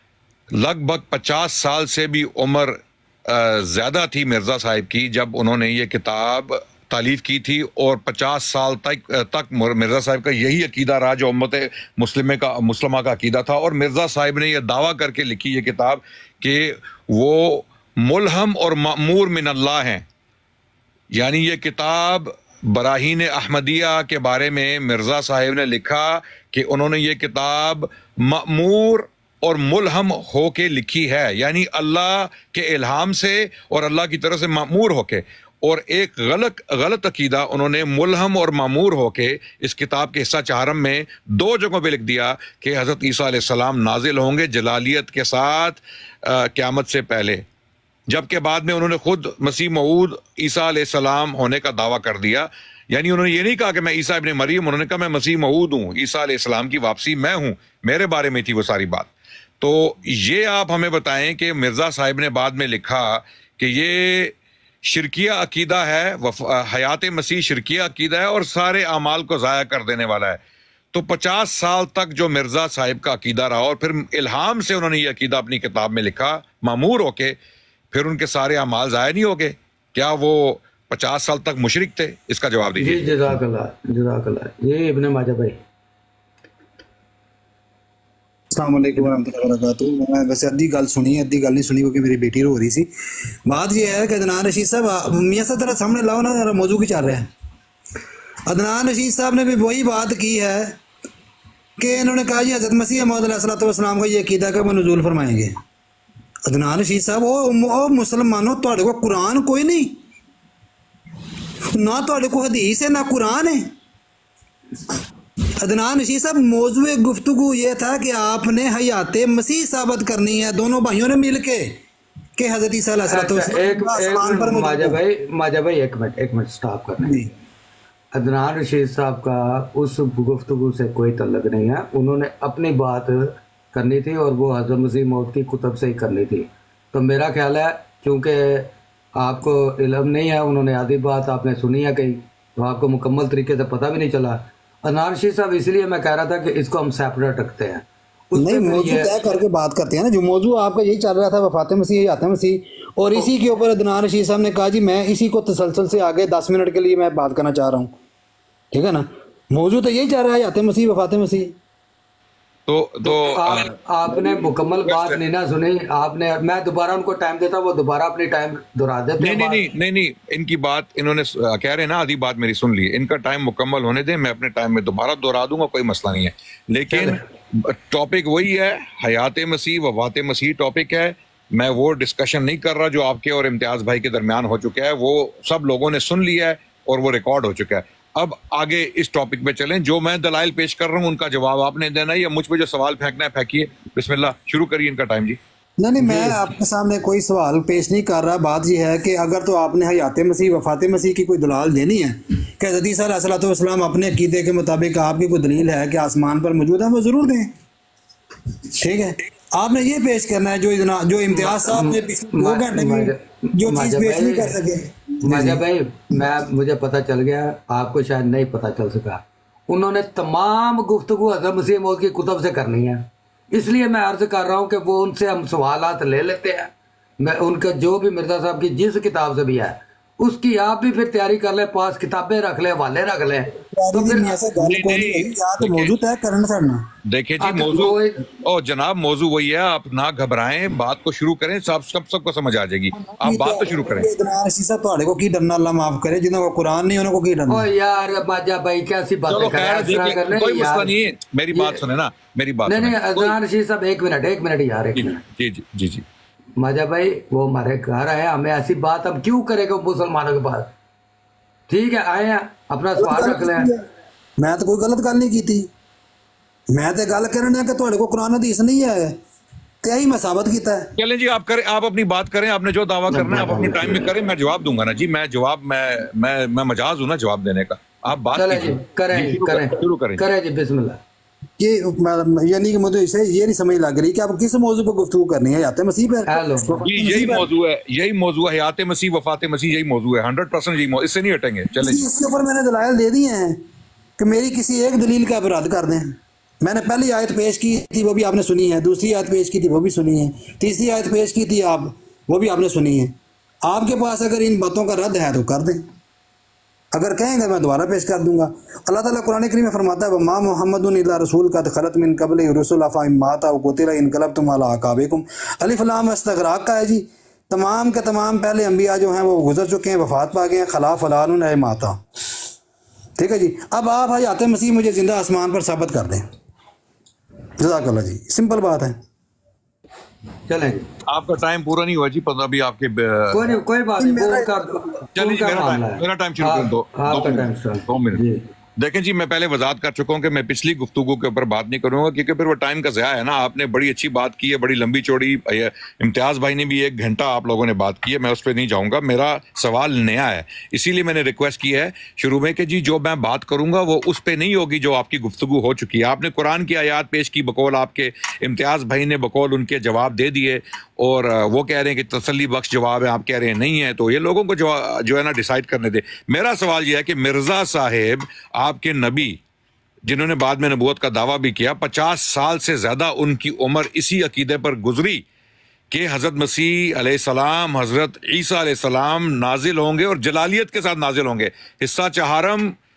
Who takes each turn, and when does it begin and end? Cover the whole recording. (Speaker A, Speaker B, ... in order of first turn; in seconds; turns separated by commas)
Speaker A: 0.5-20.0, Speaker A: 21.1-47.4, Speaker A: 48.1-70.4, Speaker A: 70.9-77.4, Speaker A: 77.9-83.4, Speaker B: 82.8-85.6, Speaker C: 88.5-92.9, Speaker C: 93.5-97.3, Speaker C: 98.5-100.8, Speaker C: 101.8-105.6, Speaker C: 106.5-110.0, Speaker C: 111.7-113.7, Speaker C: 115.6-121.8, Speaker C: 122.4-125.0, Speaker B: 123.1-127.2, Speaker C: 127.0-127.3, Speaker B: 128.1-149.2, Speaker C: 148.3-157.9, Speaker C: 158.7-161.6, Speaker A: 162.7-163.7, Speaker B: 163.0-169.7, Speaker A: 164.9-165.2, Speaker A: 169.2-195.4, Speaker B: 176.9-177.2, Speaker C: 195.8-207.5, Speaker A: 196.0-196.3, Speaker C: 208.7-215.6, Speaker B: 211.3-214.6, Speaker B: 215.2-234.4, Speaker C: 233.7-236.9, Speaker A: 234.6-235.9, Speaker A: 237.1-244.1, Speaker B: 237.4-238.2, Speaker C: 242.9-247.7, Speaker B: 247.5-250.9, Speaker A: 249.3-253.3, Speaker B: 252.7-255.2, Speaker A: 255.0-256.0, Speaker B: 256.6-260.7, Speaker B: 261.7-263.7, Speaker C: 263.0-263.9, Speaker C: 264.4-265.7, Speaker C: 266.7-269.2, Speaker C: 269.8-270.9, Speaker A: 271.0-280.2, Speaker B: 273.1-274.1, Speaker B: 278.4-281.0, Speaker C: 281.6-287.5, Speaker B: 286.3-286.8, Speaker A: 286.8-292.1, Speaker C: 291.7-293.6, Speaker C: 294.2-305.9, Speaker C: 306.9-322.0, Speaker C: 323.2-326.3, Speaker C: 327.6-329.0, Speaker B: 330.5-330.9, Speaker A: 331.1-333.6, Speaker B: 333.3-338.4, Speaker C: 334.0-334.7, Speaker A: 335.2-338.2, Speaker A: 338.8-369.4, Speaker A: 370.1-375.2, Speaker A: 375.9-382.8